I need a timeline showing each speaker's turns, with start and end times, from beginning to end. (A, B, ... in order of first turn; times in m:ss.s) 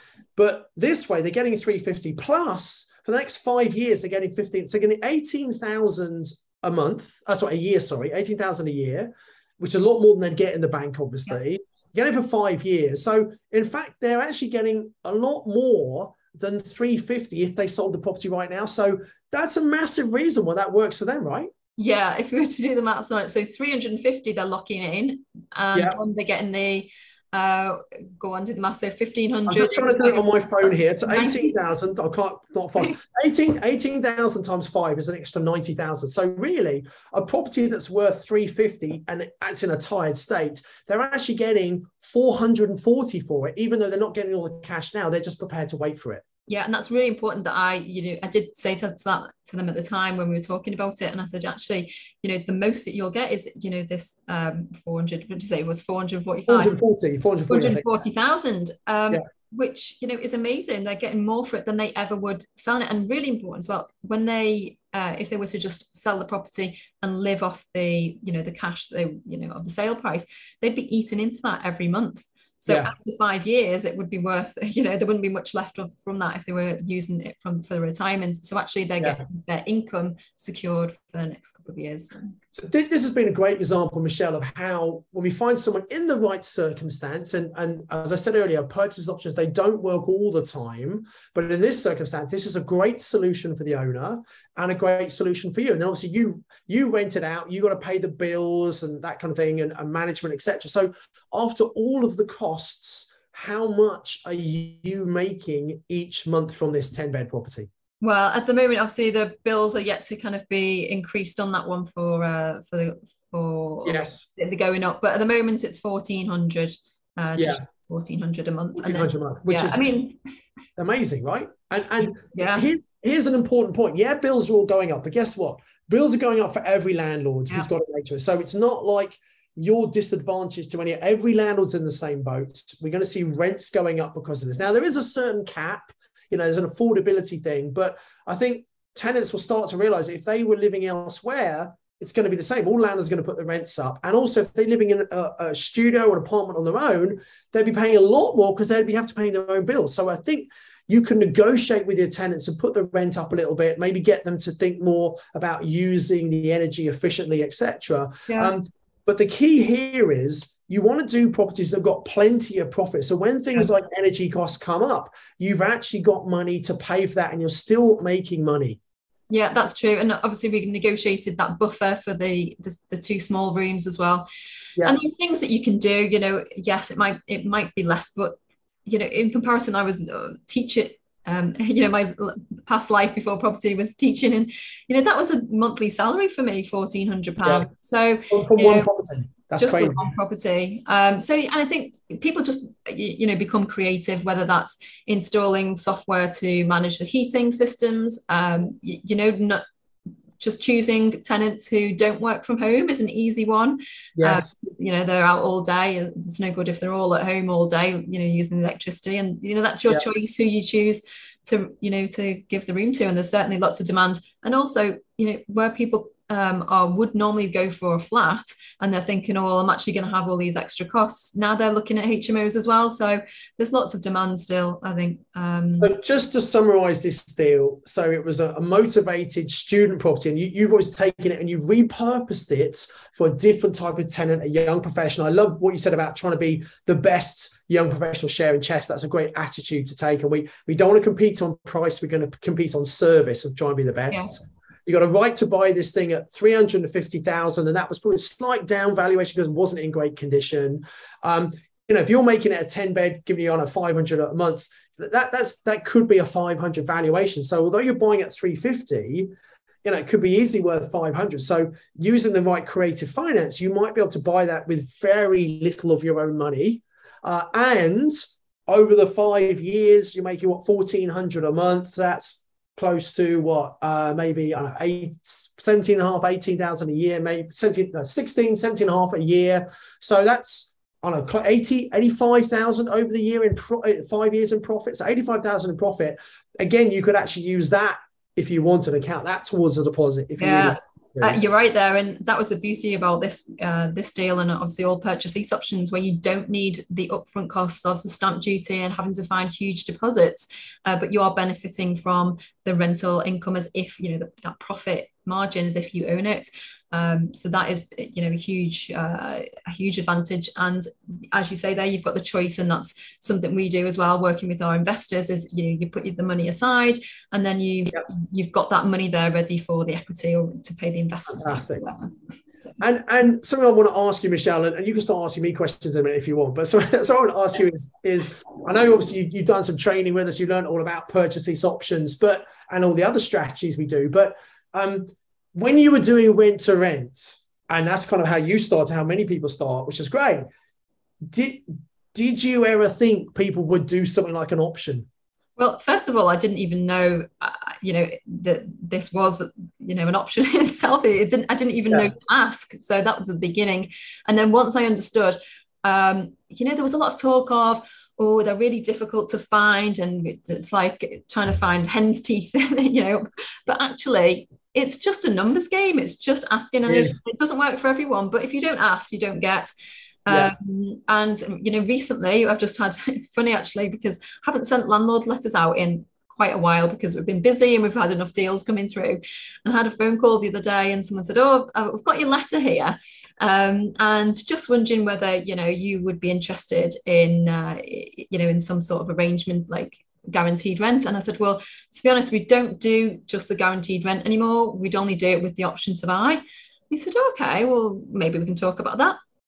0:00.4-0:21.5 A
0:21.8-0:31.5 B
0:29.5-0:46.2 A
0:46.5-0:56.7 B
0:56.5-0:57.9 A
0:57.5-1:22.3 B
1:22.6-1:47.7 A
1:48.0-2:00.2 B
1:53.8-1:54.3 A
1:57.4-1:57.6 A
1:58.8-1:59.8 A
2:00.8-2:48.8 A
2:02.2-2:02.7 B
2:38.3-2:38.5 B
2:49.3-2:54.3 B
2:54.8-3:08.9 B
3:08.3-3:10.0 A
3:09.6-3:19.6 B
3:20.4-3:45.9 B
3:24.2-3:24.5 A
3:45.8-4:19.3 A
4:04.1-4:04.4 B
4:19.8-4:51.4 A
4:50.4-5:22.1 B
5:21.4-5:21.8 A
5:22.8-5:40.4 A
5:41.2-5:45.1 A
5:45.6-6:09.7 B
6:06.9-6:07.2 A
6:10.2-6:39.2 B